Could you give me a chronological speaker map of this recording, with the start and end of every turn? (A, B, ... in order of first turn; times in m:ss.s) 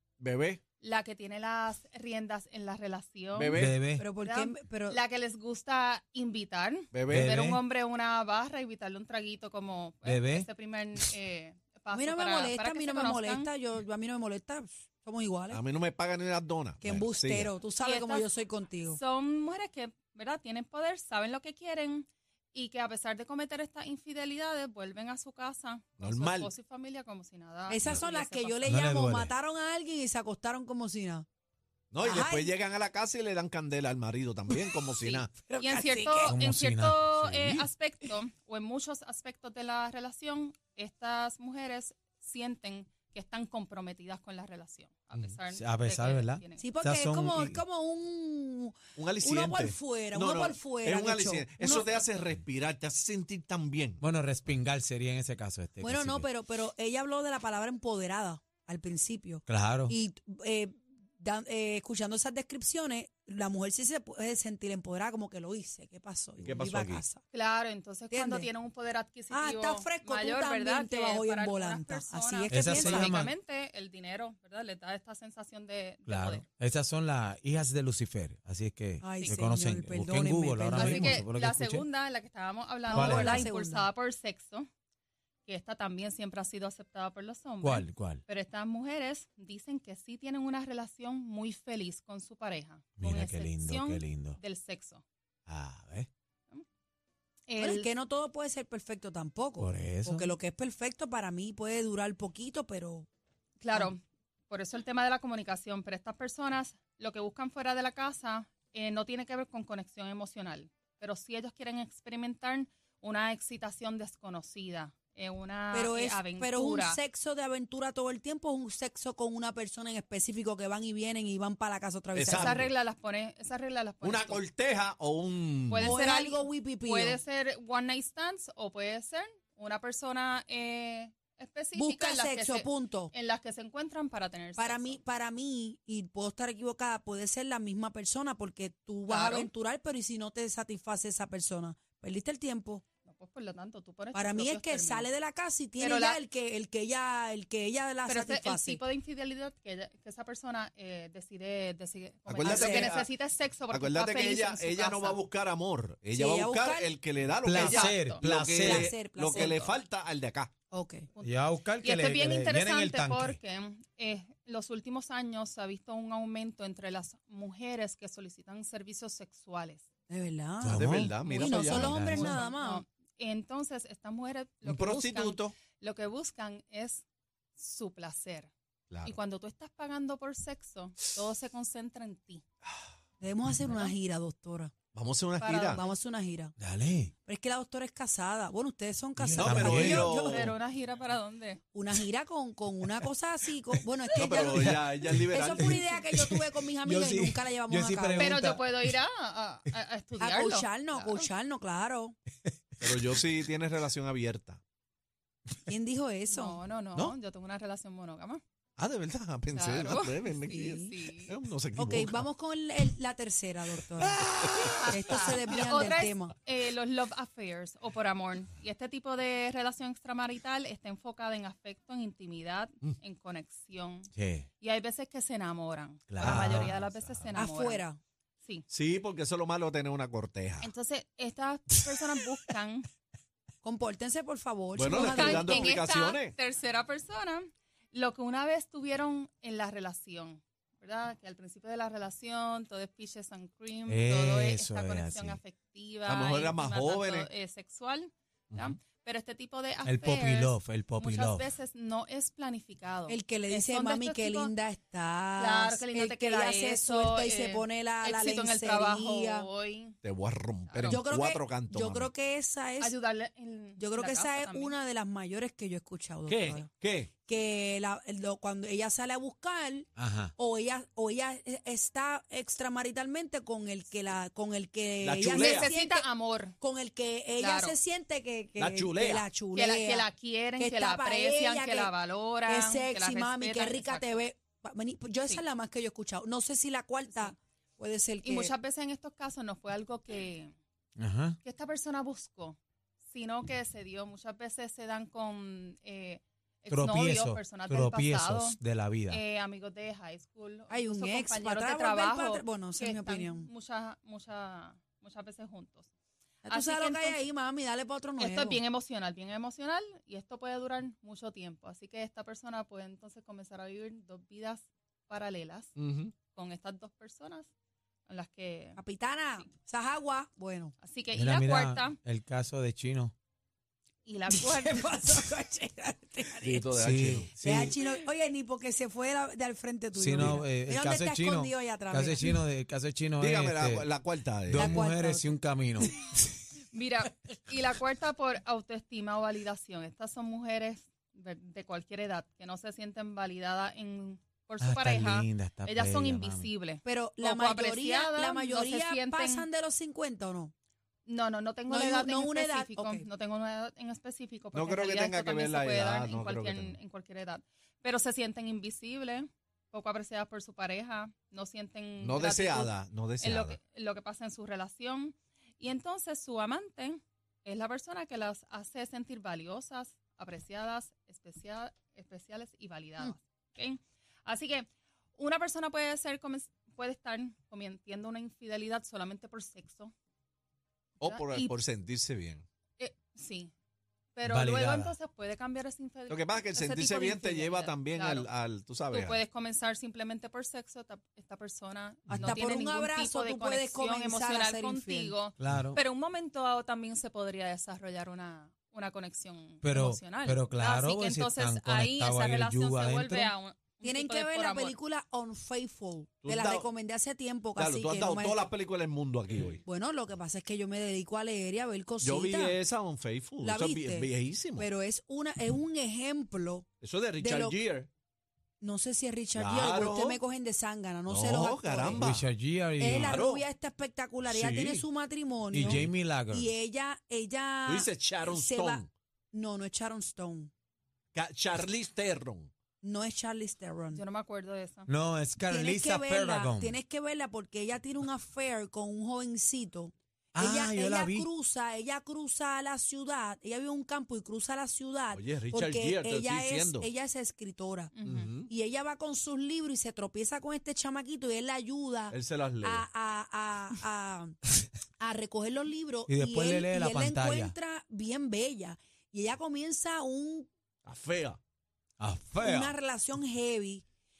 0:00.2-0:00.6 A
0:00.8-0:13.5 B
0:03.3-0:03.8 A
0:03.5-0:04.0 C
0:04.0-0:05.0 D
0:06.9-0:07.3 A
0:07.0-0:07.6 C
0:10.0-0:10.5 C
0:11.9-0:15.6 D
0:15.5-0:17.5 A
0:16.8-0:19.0 D
0:17.8-0:18.3 B
0:18.9-0:28.7 B
0:26.0-0:26.5 A
0:27.7-0:31.2 D
0:28.6-0:29.3 C
0:31.9-0:35.3 A
0:32.0-0:32.5 D
0:34.5-0:36.4 D
0:35.0-0:46.6 B
0:36.2-0:37.6 C
0:45.5-0:47.6 C
0:46.6-0:52.0 D
0:49.0-0:54.0 A
0:54.0-0:56.3 C
0:55.8-1:07.2 D
0:59.5-0:59.9 C
1:06.4-1:07.0 A
1:07.3-1:16.4 B
1:08.1-1:08.5 D
1:09.3-1:13.1 D
1:12.5-1:13.3 C
1:16.1-1:21.9 C
1:19.0-1:21.2 D
1:20.7-1:24.7 B
1:22.9-1:23.9 D
1:22.9-1:23.4 C
1:25.4-1:35.0 B
1:27.6-1:28.2 C
1:33.0-1:34.4 C
1:35.5-1:36.1 C
1:37.5-1:37.9 B
1:37.6-1:43.1 D
1:39.6-1:40.3 C
1:43.6-1:57.0 B
1:55.7-2:02.7 D
2:02.1-2:02.7 A
2:02.3-2:04.4 B
2:04.0-2:06.0 A
2:05.7-2:15.0 B
2:05.8-2:07.2 D
2:11.7-2:13.1 D
2:14.6-2:22.8 D
2:19.1-2:19.5 B
2:23.0-2:25.1 B
2:24.1-2:28.8 D
2:25.8-2:26.2 B
2:28.0-2:35.2 B
2:32.3-2:33.1 A
2:32.4-2:32.9 D
2:33.7-2:40.5 A
2:36.1-2:36.9 D
2:37.4-2:38.9 C
2:37.6-2:38.2 B
2:38.6-2:39.6 D
2:39.3-2:39.8 B
2:40.7-2:41.1 D
2:41.1-2:49.8 B
2:41.2-2:43.4 C
2:50.1-2:52.8 D
2:50.6-2:51.1 C
2:50.7-2:52.4 A
2:51.2-2:57.0 B
2:51.7-2:52.3 C
2:54.6-2:55.5 A
2:57.6-2:58.5 B
2:58.9-2:59.2 A
2:59.0-3:02.4 B
3:03.2-3:04.7 D
3:04.9-3:05.8 A
3:05.4-3:05.9 B
3:05.7-3:06.5 D
3:06.6-3:07.1 C
3:07.2-3:10.6 D
3:09.2-3:10.1 C
3:09.4-3:10.6 A
3:10.2-3:11.6 B
3:11.7-3:18.4 D
3:14.2-3:15.9 A
3:14.5-3:18.6 C
3:18.2-3:21.3 B
3:20.2-3:22.1 D
3:22.8-3:24.6 A
3:25.7-3:26.6 D
3:26.3-3:28.4 B
3:28.8-3:32.2 A
3:29.5-3:31.3 B
3:30.5-3:30.9 D
3:31.8-3:36.3 D
3:34.5-3:34.8 C
3:34.7-3:47.8 B
3:44.1-3:44.5 C
3:46.1-3:46.8 C
3:46.2-3:47.4 A
3:47.3-3:48.0 D
3:48.7-3:50.7 A
3:50.6-3:52.9 B
3:53.6-3:55.8 D
3:54.7-3:56.3 A
3:54.9-4:14.5 B
4:03.9-4:05.4 C
4:06.0-4:07.3 A
4:08.5-4:08.8 A
4:09.8-4:11.4 C
4:13.1-4:19.5 D
4:15.4-4:20.0 B
4:20.0-4:22.1 A
4:20.6-4:21.0 B
4:20.9-4:23.0 D
4:22.8-4:24.8 B
4:23.8-4:26.7 D
4:26.2-4:27.1 A
4:27.2-4:41.9 D
4:30.0-4:30.3 C
4:35.0-4:35.7 A
4:35.2-4:36.5 B
4:37.4-4:37.8 B
4:38.6-4:39.3 A
4:39.5-4:44.2 B
4:42.4-4:48.5 D
4:47.0-4:47.3 B
4:48.2-4:50.5 B
4:51.0-4:51.4 C
4:51.4-5:05.9 B
4:56.7-4:59.2 C
5:00.7-5:03.5 D
5:06.4-5:08.6 D
5:06.5-5:07.2 B
5:08.2-5:15.7 B
5:15.8-5:16.1 A
5:16.3-5:17.5 B
5:18.0-5:18.8 B
5:18.8-5:20.7 D
5:20.8-5:22.0 B
5:21.1-5:23.1 C
5:24.0-5:25.0 B
5:24.3-5:26.7 D
5:26.4-5:27.3 A
5:26.7-5:27.7 C
5:27.4-5:32.4 D
5:29.9-5:33.9 C
5:33.2-5:34.7 A
5:34.5-5:35.9 C
5:34.5-5:35.4 D
5:36.7-5:49.5 B
5:44.6-5:46.5 C
5:46.8-5:50.5 D
5:51.0-6:19.9 B
5:51.7-5:53.0 D
5:54.5-5:56.8 A
6:02.0-6:03.6 A
6:21.0-6:21.5 B
6:21.0-6:22.4 A
6:22.8-6:23.5 B
6:24.1-6:28.3 B
6:24.2-6:24.9 C
6:26.1-6:29.2 A
6:28.9-6:44.7 B
6:32.1-6:35.2 D
6:35.4-6:35.8 C
6:39.6-6:43.3 C
6:43.8-6:48.4 D
6:46.2-6:46.7 A
6:47.6-6:49.6 A
6:49.6-6:52.6 D
6:52.0-6:54.7 A
6:53.4-6:56.7 D
6:56.8-6:57.9 A
6:57.2-6:57.6 D
6:58.6-7:02.1 D
6:59.3-7:00.2 A
7:01.1-7:02.3 A
7:01.9-7:03.2 C
7:02.8-7:10.5 D
7:02.9-7:03.4 A
7:04.2-7:04.8 A
7:05.5-7:06.5 C
7:05.6-7:05.9 A
7:07.6-7:08.9 A
7:11.1-7:12.5 A
7:12.8-7:14.0 D
7:13.9-7:14.9 B
7:14.9-7:16.8 C
7:15.5-7:27.9 D
7:20.4-7:21.3 C
7:25.1-7:26.9 A
7:27.9-7:28.3 B
7:28.0-7:28.5 A
7:28.4-7:34.4 D
7:32.1-7:32.9 A
7:35.0-7:40.5 D
7:36.1-7:37.5 C
7:40.8-7:41.4 A
7:42.0-7:42.7 C
7:42.4-7:43.8 D